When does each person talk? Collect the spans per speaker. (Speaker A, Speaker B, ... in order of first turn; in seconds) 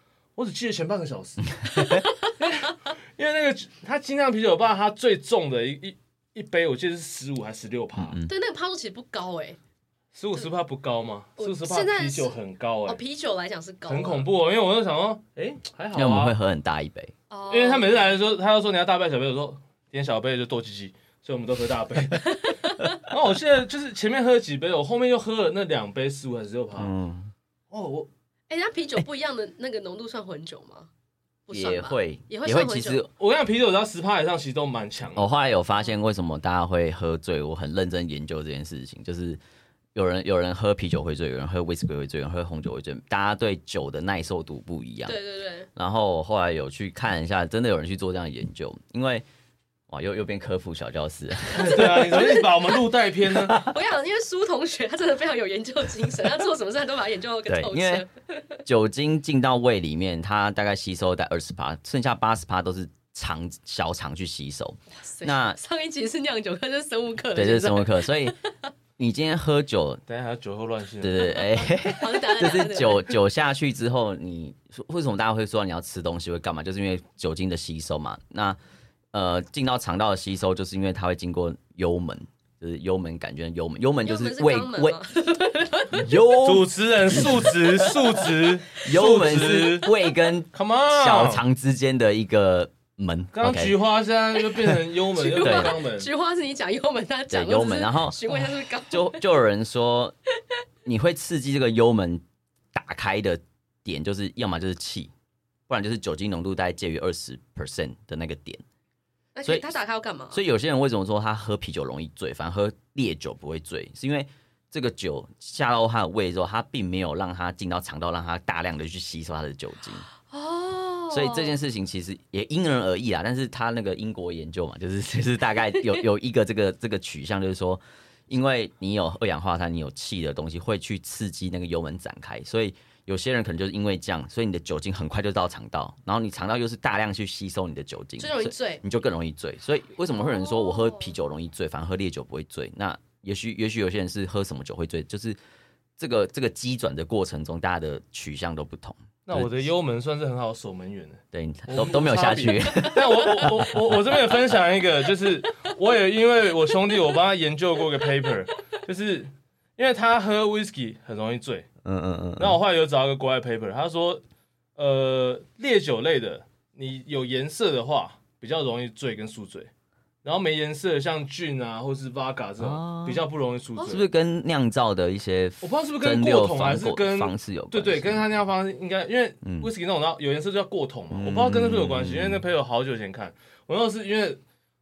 Speaker A: 0.4-1.8, 2.4-8.2, 10.1-13.0, 13.9-16.3, 17.5-22.2, 23.0-26.9, 27.7-28.1, 33.2-35.3, 51.5-53.6, 70.1-71.4, 86.4-89.9, 90.5-91.4, 93.3-96.1, 149.3-161.7, 162.4-164.2, 164.8-169.7, 170.2-174.1, 175.6-184.4
Speaker B: 1.7-2.3, 8.3-9.6, 11.4-12.3, 12.9-14.3, 17.3-18.0, 22.2-23.0, 28.5-30.9, 31.5-33.0, 45.0-45.7, 51.7-52.5, 53.5-58.6, 65.0-68.7, 71.3-73.1, 84.0-86.1, 95.1-99.2, 109.3-110.4, 120.3-121.6, 138.2-138.8, 140.1-141.1
Speaker C: 8.0-8.3, 15.9-17.1, 26.8-27.3, 31.5-33.1, 35.2-39.4, 40.0-45.2, 45.8-49.2, 49.9-52.3, 53.4-53.7, 57.5-58.0, 58.7-65.6, 67.3-68.4, 69.0-70.0, 71.0-78.6, 79.1-85.0, 85.9-87.5, 88.8-93.8, 95.4-95.7, 97.3-100.2, 100.8-105.1, 105.7-108.6, 110.3-120.1, 121.1-145.4, 146.0-149.6, 151.3-153.9, 161.8-162.6, 172.6-173.3, 173.8-178.2, 179.4-179.7, 181.1-182.4